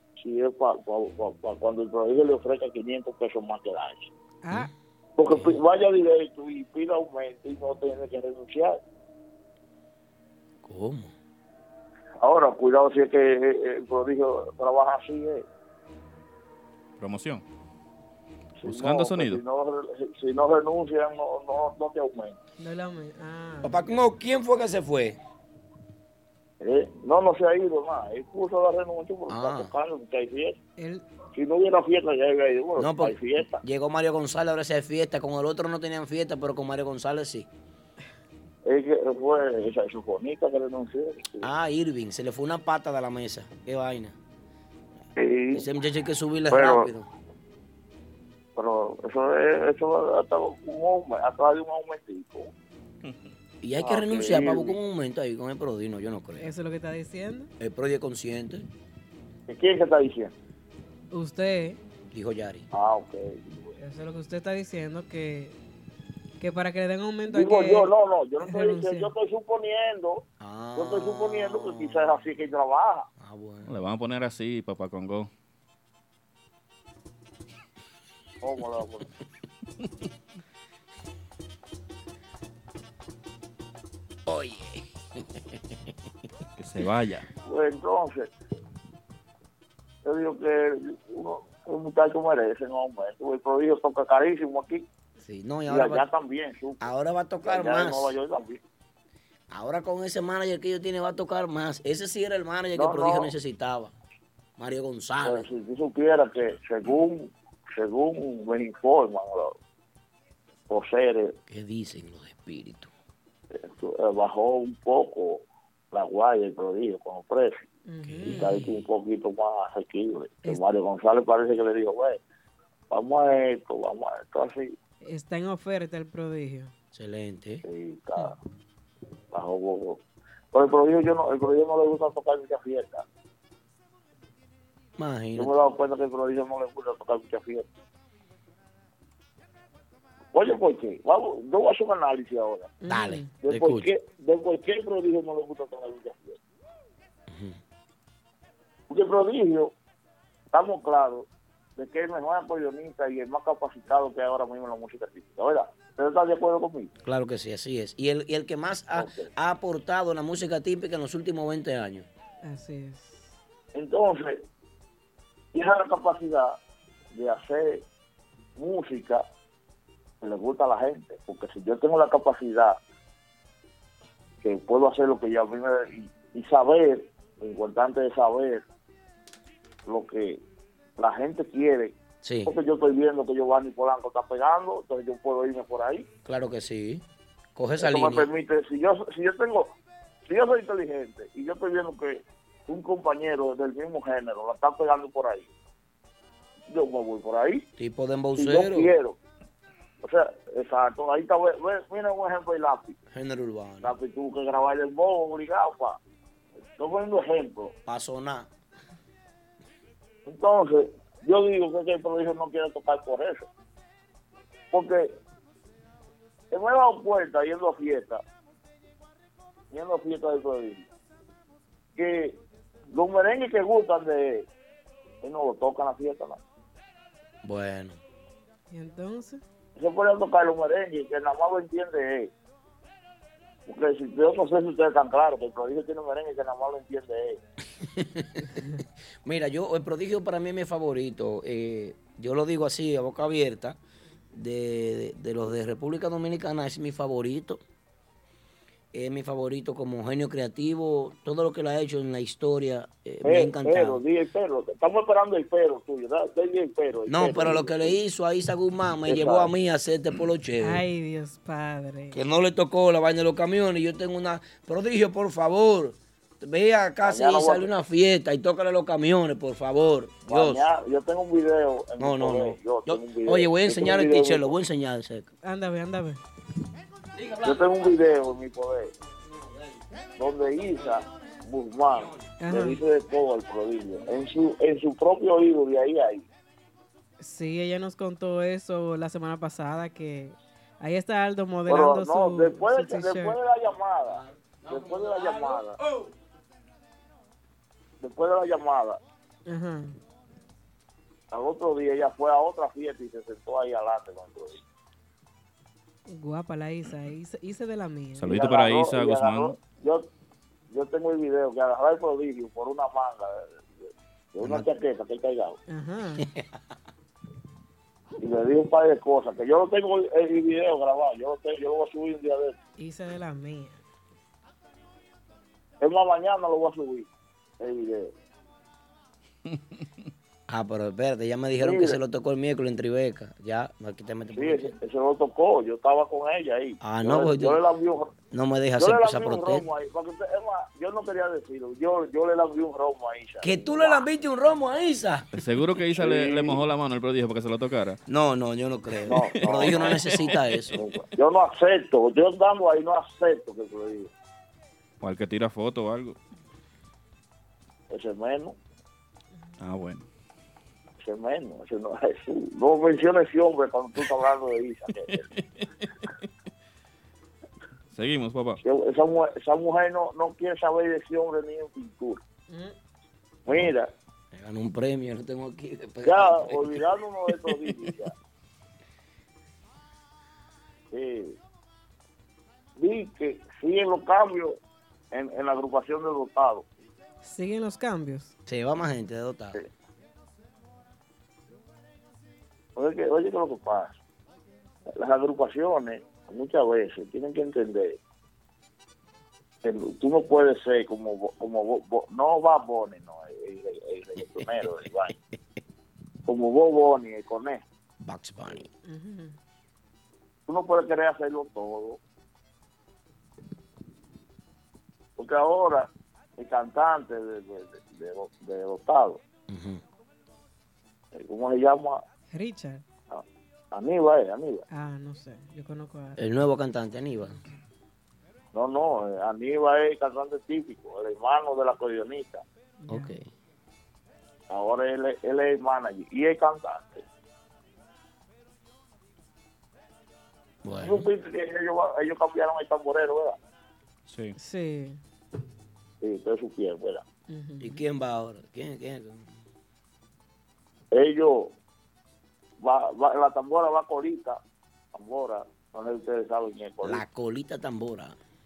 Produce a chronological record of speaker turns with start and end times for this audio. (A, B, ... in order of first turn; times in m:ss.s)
0:00.2-0:04.1 A
0:04.4-0:04.7 B
0:05.2-0:08.8 A
0:10.6-0:11.1 C
0:12.2-0:15.5 A
0:17.0-0:17.4 D
0:18.6-0:22.4 A
0:18.6-0:19.4 D
0:22.6-0:23.8 B
0:23.6-0:25.2 C
0:26.6-0:30.6 A
0:29.3-0:29.7 C
0:30.8-0:31.1 B
0:31.3-0:33.6 A
0:32.8-0:37.5 C
0:38.6-0:41.5 A
0:41.4-0:44.2 C
0:45.2-0:45.7 A
0:45.5-0:47.1 C
0:46.5-0:46.9 A
0:48.6-0:52.5 A
0:53.6-0:56.5 C
0:53.8-0:54.8 A
0:56.4-0:57.5 B
0:57.6-0:58.7 C
0:59.5-1:00.3 A
1:01.1-1:01.8 B
1:02.1-1:02.7 C
1:02.7-1:03.7 A
1:03.8-1:05.6 B
1:06.4-1:09.1 B
1:07.3-1:10.2 A
1:10.4-1:12.2 C
1:10.8-1:13.1 A
1:13.2-1:13.7 C
1:13.7-1:15.3 D
1:18.4-1:19.1 A
1:24.3-1:25.6 C
1:26.6-1:27.3 D
1:27.4-1:28.3 A
1:30.0-1:34.9 A
1:35.2-1:36.1 C
1:35.7-1:36.9 A
1:36.8-1:38.2 C
1:37.4-1:38.6 A
1:39.5-1:43.9 C
1:42.7-1:43.3 A
1:44.6-1:45.5 C
1:45.2-1:49.6 A
1:50.7-1:51.4 A
1:51.5-1:52.9 C
1:53.5-1:57.7 A
1:57.9-1:58.6 B
1:58.1-1:58.6 C
1:58.3-2:02.2 A
2:02.9-2:04.8 A
2:05.0-2:06.7 B
2:06.9-2:07.6 C
2:07.6-2:08.4 A
2:09.3-2:10.0 A
2:10.5-2:13.0 A
2:15.0-2:15.6 C
2:15.4-2:17.7 A
2:20.3-2:22.8 A
2:22.8-2:23.3 B
2:22.9-2:23.9 C
2:23.4-2:26.4 A
2:27.3-2:27.6 C
2:28.9-2:29.7 A
2:30.5-2:36.9 A
2:37.0-2:42.1 C
2:39.0-2:39.3 A
2:42.4-2:43.4 B
2:43.7-2:44.4 A
2:45.5-2:46.6 A
2:47.1-2:47.8 A
2:48.6-2:49.2 A
2:50.2-2:52.8 A
2:54.4-2:58.6 A
2:59.9-3:00.4 A
3:01.0-3:06.1 A
3:02.2-3:02.5 C
3:06.2-3:07.0 C
3:07.6-3:08.3 C
3:07.8-3:09.8 A
3:10.3-3:15.5 A
3:16.7-3:17.7 A
3:17.8-3:18.9 C
3:18.4-3:19.2 A
3:20.0-3:23.0 A
3:23.1-3:23.9 C
3:23.8-3:26.0 A
3:26.8-3:27.8 A
3:27.9-3:28.5 C
3:30.3-3:33.5 A
3:34.7-3:35.2 A
3:36.5-3:38.2 A
3:39.7-3:40.9 A
3:42.0-3:42.4 A
3:42.9-3:44.5 A
3:45.2-3:46.4 A
3:47.4-3:48.0 C
3:48.7-3:49.4 B
3:49.8-3:52.3 A
3:53.7-3:57.4 A
3:57.8-3:58.6 C
3:59.2-4:03.8 C
4:04.3-4:07.6 C
4:08.9-4:14.0 C
4:13.2-4:18.0 A
4:17.1-4:20.8 C
4:19.0-4:19.5 A
4:20.6-4:22.2 B
4:22.1-4:30.7 C
4:27.0-4:27.7 A
4:30.2-4:34.5 A
4:32.0-4:35.3 C
4:35.4-4:36.2 B
4:37.2-4:37.9 C
4:37.4-4:38.9 A
4:39.3-4:39.8 C
4:40.2-4:46.3 A
4:42.4-4:42.8 B
4:47.2-4:53.4 B
4:51.7-4:55.8 A
4:54.0-4:56.1 C
4:58.0-4:59.0 A
4:59.5-5:00.0 B
5:01.3-5:04.6 A
5:06.1-5:08.3 B
5:08.2-5:09.6 D
5:08.3-5:10.1 A
5:10.7-5:15.6 A
5:15.7-5:16.2 B
5:16.2-5:16.5 C
5:18.2-5:22.6 A
5:22.8-5:23.8 B
5:25.8-5:27.1 A
5:27.6-5:28.1 A
5:30.5-5:34.7 C
5:31.6-5:32.0 A
5:34.3-5:38.2 A
5:36.8-5:37.6 C
5:38.3-5:39.7 C
5:38.8-5:44.1 A
5:43.4-5:45.3 C
5:45.3-5:48.0 D
5:46.0-5:46.6 A
5:48.1-5:50.8 C
5:49.0-5:54.1 A
5:49.4-5:50.3 D
5:55.0-5:56.2 D
5:57.9-5:58.6 A
5:59.6-6:00.0 D
6:01.0-6:05.2 A
6:07.9-6:08.6 D
6:08.6-6:12.2 A
6:12.5-6:12.8 B
6:13.5-6:13.9 A
6:14.3-6:16.8 C
6:16.0-6:18.1 A
6:20.9-6:21.4 A
6:22.8-6:24.6 A
6:25.1-6:26.6 A
6:27.2-6:28.3 B
6:28.5-6:29.6 C
6:32.8-6:34.0 A
6:34.9-6:38.0 A
6:39.6-6:45.2 A
6:46.3-6:47.6 A
6:48.0-6:48.7 C
6:48.8-6:49.4 B
6:50.5-6:52.0 A
6:55.2-6:59.2 A
6:59.5-6:59.8 C
7:01.1-7:02.0 A
7:02.3-7:02.8 B
7:03.1-7:04.6 A
7:04.7-7:06.2 B
7:06.2-7:07.4 C
7:08.5-7:12.4 A
7:12.8-7:13.2 B
7:12.9-7:13.3 C
7:14.5-7:17.0 A
7:20.6-7:21.1 C
7:20.8-7:23.4 A
7:24.1-7:24.4 D
7:24.4-7:25.0 B
7:26.0-7:27.0 A
7:27.3-7:27.8 B
7:27.6-7:29.3 C
7:30.9-7:31.5 A
7:32.6-7:34.4 A
7:34.9-7:37.0 A
7:36.8-7:38.2 C